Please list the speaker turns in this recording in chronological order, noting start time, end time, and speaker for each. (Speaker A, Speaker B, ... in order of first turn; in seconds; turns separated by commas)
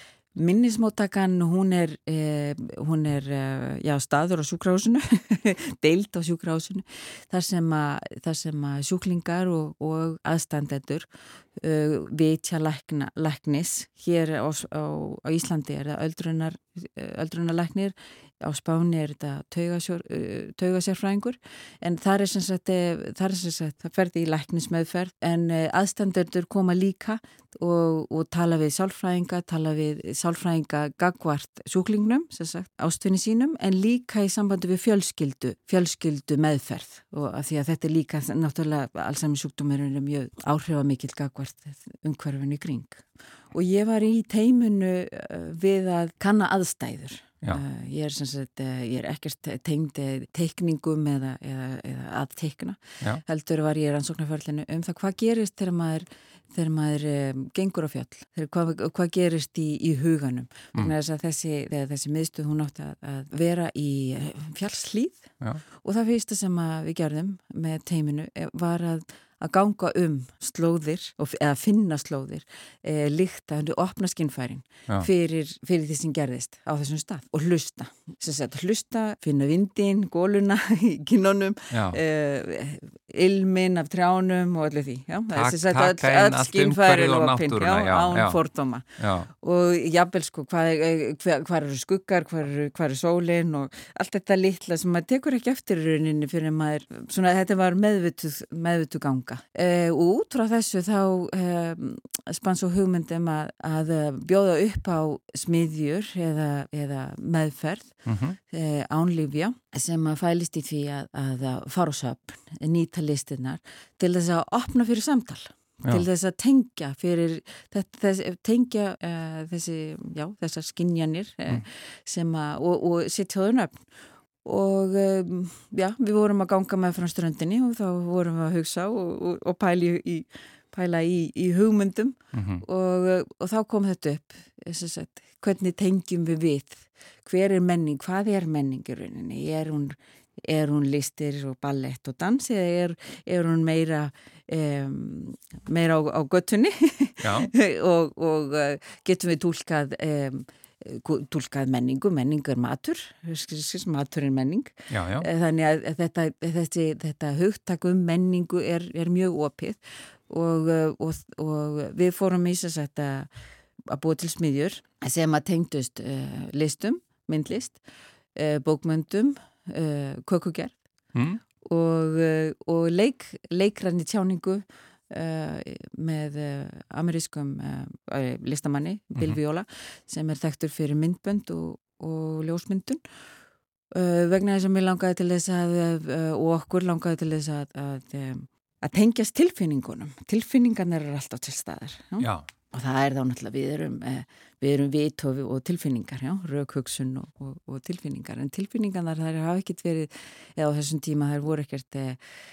Speaker A: 0.4-107.9, Speaker B: 81.7-82.0, Speaker B: 85.3-88.4, Speaker B: 89.0-89.3, Speaker B: 108.1-108.4, Speaker A: 108.5-123.8, Speaker A: 124.4-140.0, Speaker B: 132.3-132.6, Speaker A: 140.5-163.3, Speaker B: 147.2-147.5, Speaker B: 154.9-155.3, Speaker A: 163.9-167.8, Speaker A: 168.4-170.8, Speaker B: 171.1-171.4, Speaker A: 171.5-183.0, Speaker A: 183.9-202.2, Speaker B: 192.2-192.5